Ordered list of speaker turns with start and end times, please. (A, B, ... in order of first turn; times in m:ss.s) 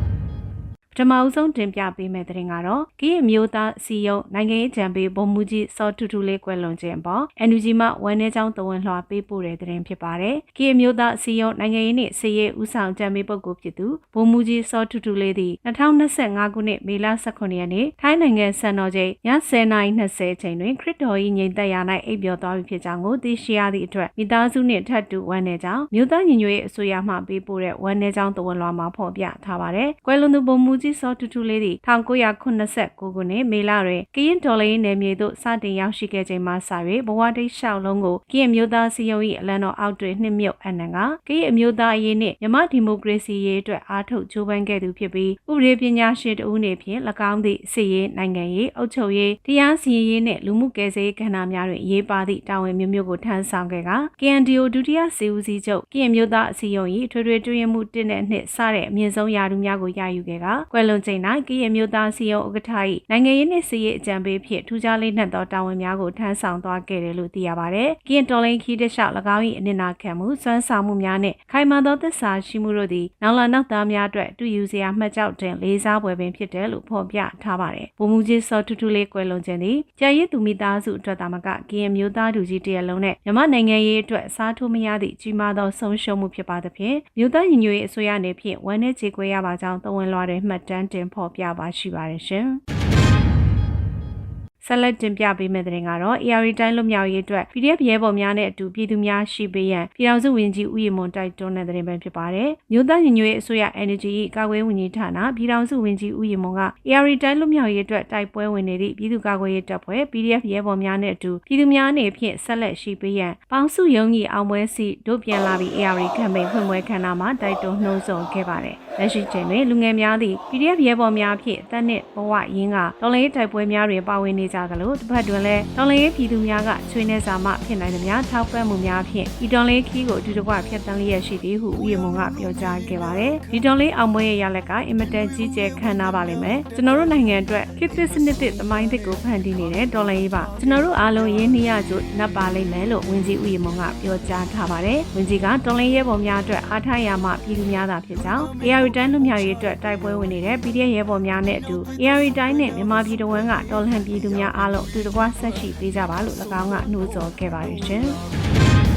0:00.9-1:32.6 A
1:34.6-2:38.2 A